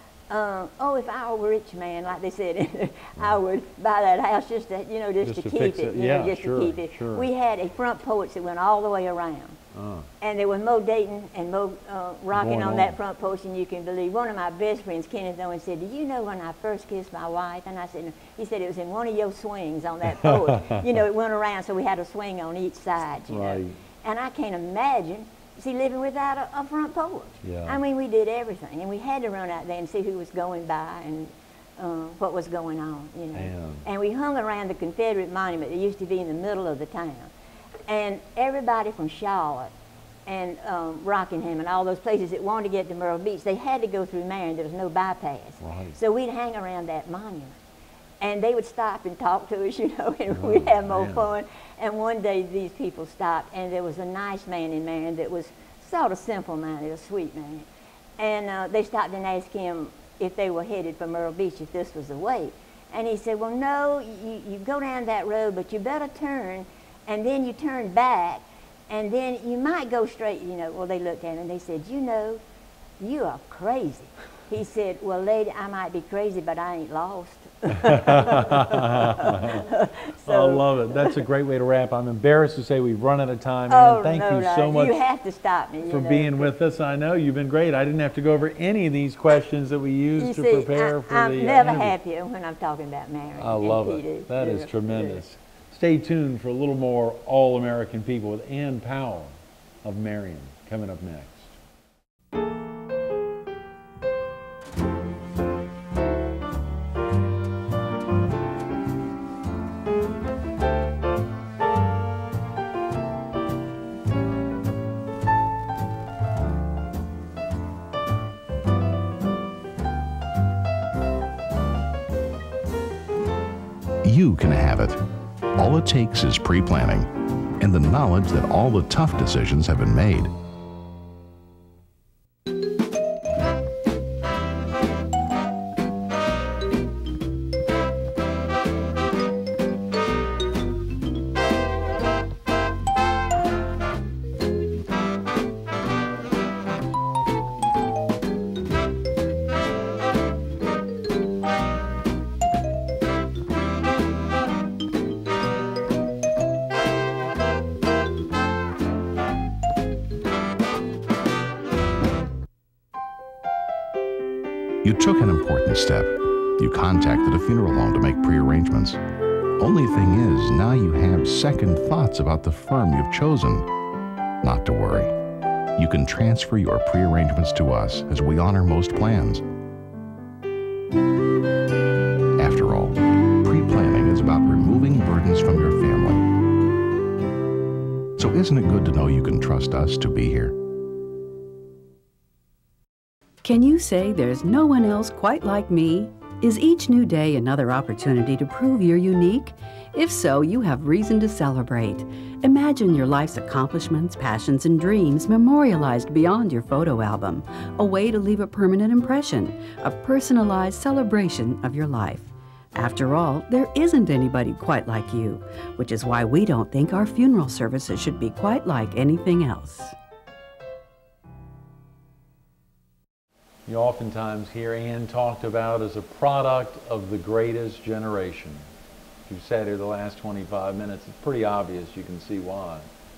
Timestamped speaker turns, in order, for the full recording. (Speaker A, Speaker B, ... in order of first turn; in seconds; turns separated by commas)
Speaker A: 0.3-9.6, Speaker B: 5.2-7.3, Speaker B: 9.7-10.1, Speaker A: 10.2-37.3, Speaker B: 12.3-13.0, Speaker B: 20.2-20.7, Speaker B: 23.3-23.8, Speaker B: 27.4-27.8, Speaker B: 33.3-33.8, Speaker A: 37.9-39.7, Speaker A: 40.2-47.6, Speaker B: 45.6-46.0, Speaker A: 48.2-57.7, Speaker B: 50.3-51.3, Speaker A: 58.2-72.4, Speaker A: 73.0-81.2, Speaker B: 77.8-79.7, Speaker B: 80.2-85.0, Speaker A: 83.7-86.5, Speaker B: 85.9-92.0, Speaker A: 90.2-95.2, Speaker B: 93.4-101.5, Speaker C: 124.0-125.0, Speaker C: 125.6-127.1, Speaker C: 127.6-130.3, Speaker C: 164.8-169.0, Speaker C: 169.6-173.7, Speaker C: 174.4-175.1, Speaker C: 175.8-179.4, Speaker C: 182.4-186.2, Speaker C: 188.2-190.5, Speaker D: 193.4-219.9, Speaker B: 223.7-228.6, Speaker B: 229.3-232.9